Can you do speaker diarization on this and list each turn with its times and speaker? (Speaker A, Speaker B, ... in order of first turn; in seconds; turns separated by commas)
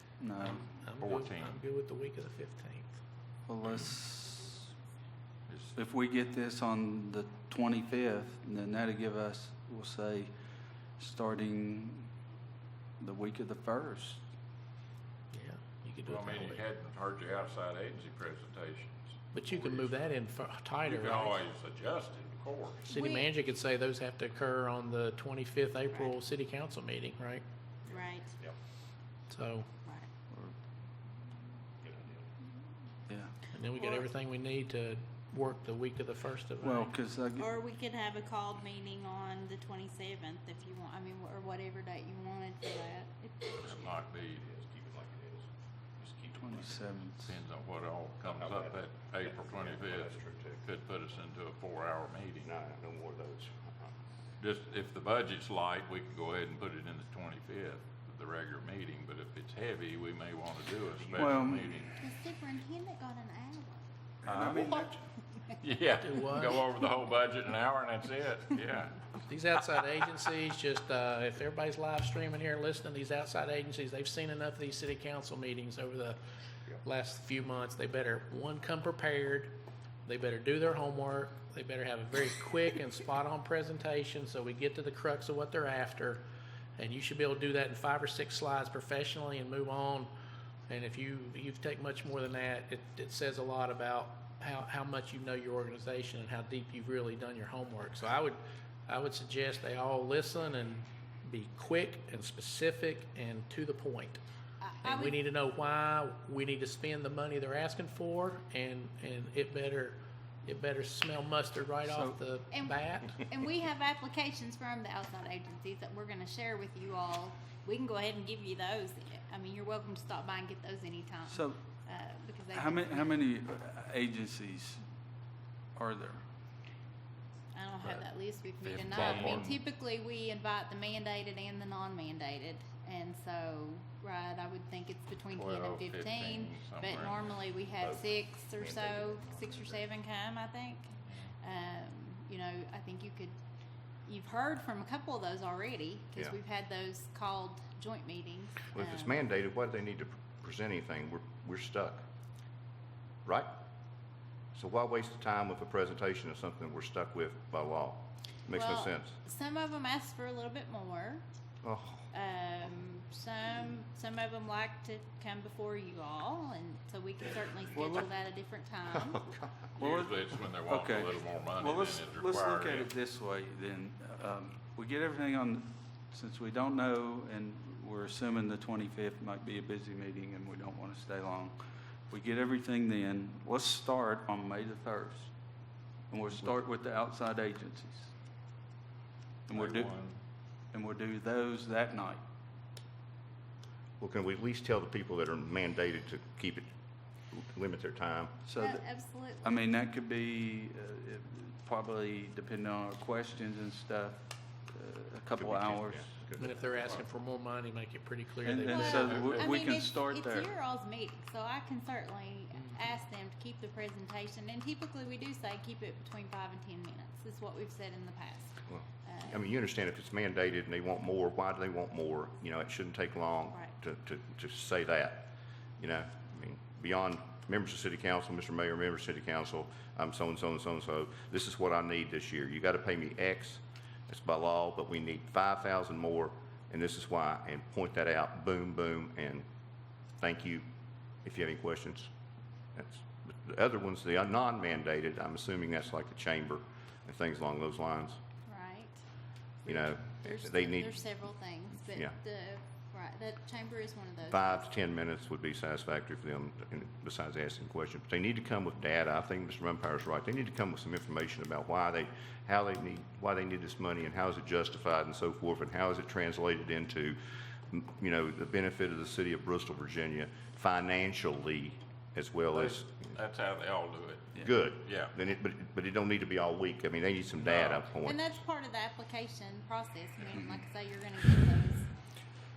Speaker A: 0.2-0.7, Speaker B: 0.4-3.0, Speaker C: 1.0-1.6, Speaker A: 3.5-4.7, Speaker C: 3.6-3.9, Speaker C: 5.5-5.8, Speaker A: 5.7-10.3, Speaker A: 11.0-12.1, Speaker A: 13.0-14.2, Speaker B: 15.3-16.6, Speaker C: 16.1-20.1, Speaker B: 19.3-21.4, Speaker C: 20.9-22.9, Speaker B: 22.9-27.4, Speaker D: 22.9-23.3, Speaker E: 27.8-28.6, Speaker D: 27.9-28.3, Speaker B: 29.3-29.7, Speaker D: 29.9-30.1, Speaker E: 31.8-32.2, Speaker A: 33.1-33.3, Speaker B: 33.5-36.9, Speaker A: 36.6-37.5, Speaker D: 37.4-43.6, Speaker E: 43.5-46.8, Speaker C: 43.6-44.4, Speaker A: 46.3-47.4, Speaker C: 47.2-52.5, Speaker E: 48.2-50.7, Speaker E: 52.4-53.9, Speaker C: 54.4-61.9, Speaker E: 61.0-61.6, Speaker A: 61.1-61.8, Speaker D: 62.0-63.9, Speaker A: 64.2-65.0, Speaker C: 64.2-64.9, Speaker C: 65.6-69.0, Speaker B: 66.0-66.6, Speaker B: 69.2-76.2, Speaker B: 76.8-86.2, Speaker B: 86.8-90.1, Speaker B: 90.7-104.2, Speaker D: 104.6-105.2, Speaker B: 104.8-113.2, Speaker A: 111.8-112.2, Speaker D: 112.5-123.1, Speaker A: 121.2-121.6, Speaker A: 122.5-124.8, Speaker A: 125.8-126.2, Speaker D: 127.5-143.3, Speaker C: 128.6-129.6, Speaker C: 135.3-137.4, Speaker E: 137.8-139.9, Speaker D: 144.1-149.2, Speaker E: 148.7-152.1, Speaker E: 153.2-153.6, Speaker E: 154.5-159.2, Speaker D: 158.5-161.2, Speaker E: 161.6-162.1, Speaker D: 162.1-169.3, Speaker A: 167.8-168.0, Speaker E: 169.1-169.5, Speaker C: 169.8-172.9, Speaker A: 169.8-185.3, Speaker A: 186.1-188.1, Speaker A: 189.5-190.0, Speaker C: 189.5-190.2, Speaker A: 190.7-192.2, Speaker E: 194.0-196.7, Speaker E: 197.3-198.4, Speaker A: 198.5-198.8, Speaker D: 198.6-199.5, Speaker A: 199.4-206.1, Speaker E: 205.3-206.5, Speaker B: 206.4-209.2, Speaker C: 206.5-207.0, Speaker A: 208.4-210.5, Speaker D: 208.6-219.4, Speaker C: 209.0-209.6, Speaker E: 218.7-239.5, Speaker E: 240.2-240.7, Speaker E: 241.2-242.1, Speaker E: 242.7-248.2, Speaker D: 248.5-249.0, Speaker D: 249.6-254.7, Speaker E: 249.7-251.1, Speaker E: 251.9-252.1, Speaker E: 254.2-267.2, Speaker E: 267.7-273.1, Speaker C: 272.5-275.1, Speaker E: 274.4-278.4, Speaker C: 277.4-277.9, Speaker D: 278.0-281.9, Speaker A: 280.3-280.6